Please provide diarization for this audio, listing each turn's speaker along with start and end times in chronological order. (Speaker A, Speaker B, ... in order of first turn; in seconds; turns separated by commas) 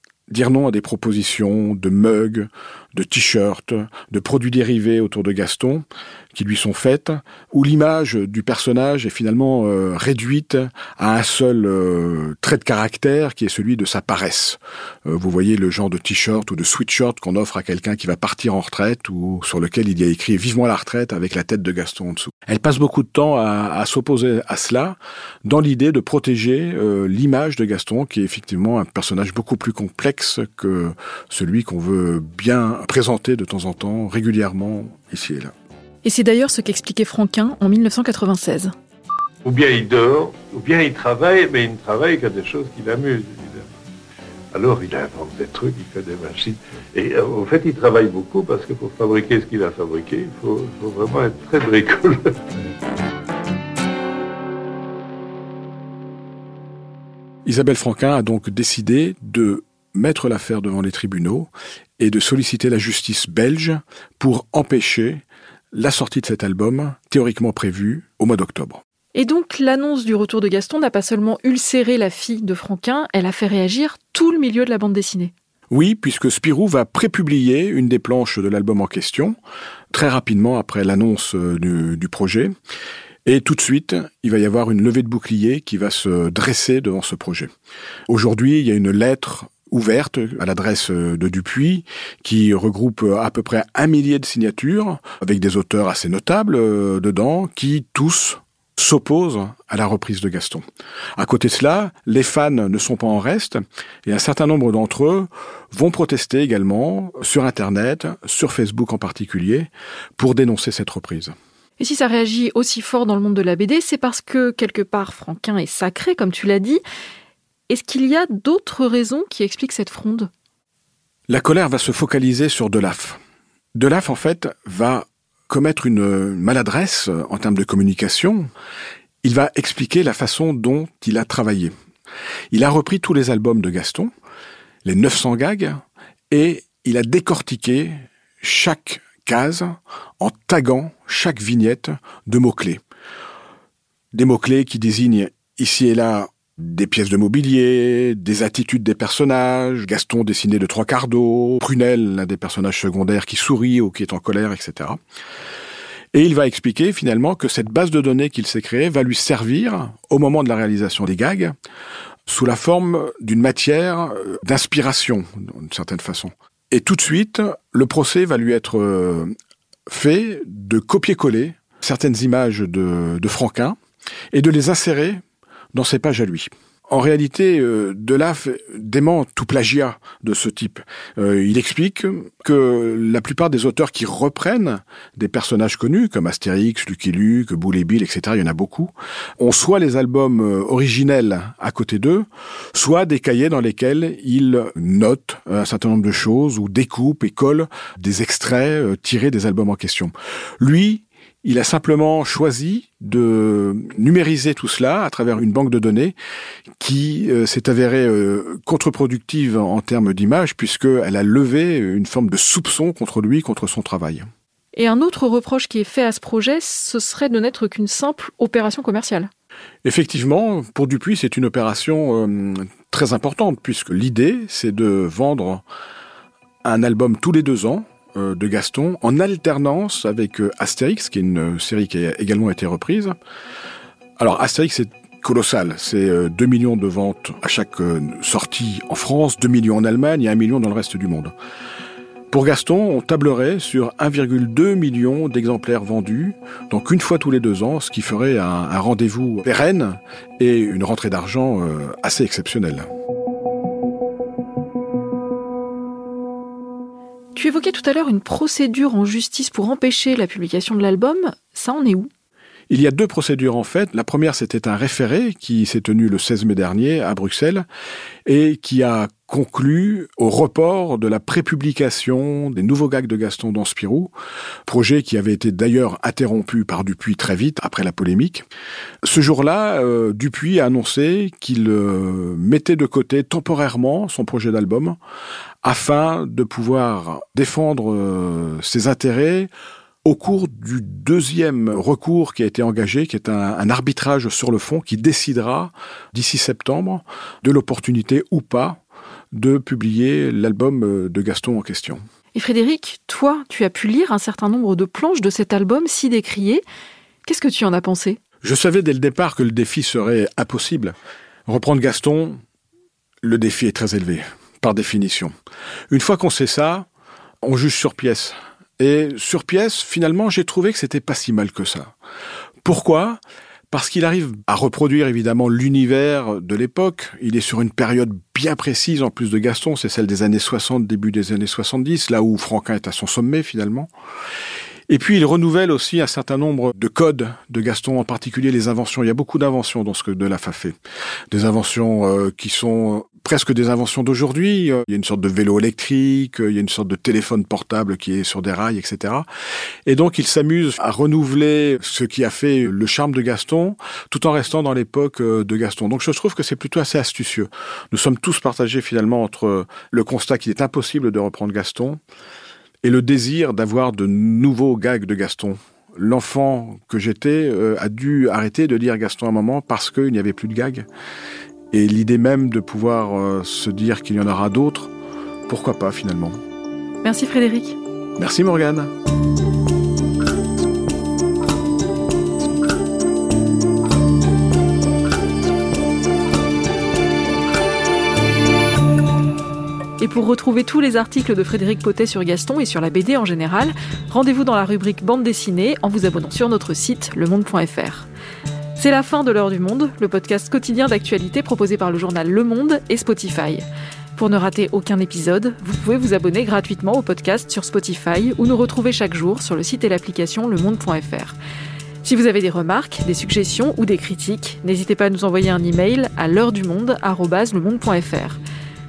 Speaker A: 0.3-35.5, Speaker B: 36.0-38.7, Speaker C: 39.4-43.7, Speaker C: 44.5-52.7, Speaker A: 57.4-68.8, Speaker B: 69.1-75.3, Speaker A: 75.7-79.4, Speaker A: 79.9-82.5, Speaker A: 83.2-87.5, Speaker A: 88.1-100.6, Speaker A: 101.2-111.3, Speaker B: 111.8-116.8, Speaker B: 117.7-120.3, Speaker A: 121.3-123.2, Speaker A: 123.8-128.5, Speaker A: 129.2-131.7, Speaker A: 132.5-134.1, Speaker A: 134.8-142.8, Speaker A: 144.1-155.0, Speaker A: 156.1-161.5, Speaker A: 162.3-169.3, Speaker A: 169.9-173.8, Speaker A: 174.3-175.2, Speaker A: 175.7-206.2, Speaker A: 206.8-214.3, Speaker B: 214.7-219.3, Speaker A: 219.8-225.6, Speaker A: 226.6-233.2, Speaker A: 234.2-241.3, Speaker A: 242.3-252.9, Speaker B: 257.3-262.1, Speaker A: 262.7-267.6, Speaker A: 268.2-274.1, Speaker A: 274.6-278.4, Speaker A: 279.0-285.0, Speaker A: 285.6-289.5, Speaker A: 290.0-298.8, Speaker A: 299.3-302.0, Speaker B: 302.3-306.6, Speaker B: 307.2-308.2, Speaker A: 308.4-311.0, Speaker A: 311.5-312.4, Speaker A: 313.2-315.3, Speaker A: 315.9-316.9, Speaker A: 317.4-321.9, Speaker A: 322.6-323.2, Speaker A: 323.7-333.9, Speaker A: 334.9-340.8, Speaker A: 341.3-349.2, Speaker A: 349.9-362.0, Speaker A: 362.8-370.9, Speaker A: 371.7-374.9, Speaker A: 375.5-376.4, Speaker B: 377.0-377.8, Speaker A: 378.2-378.9, Speaker B: 390.0-398.1, Speaker B: 398.8-403.6, Speaker B: 404.1-411.4, Speaker B: 412.0-418.4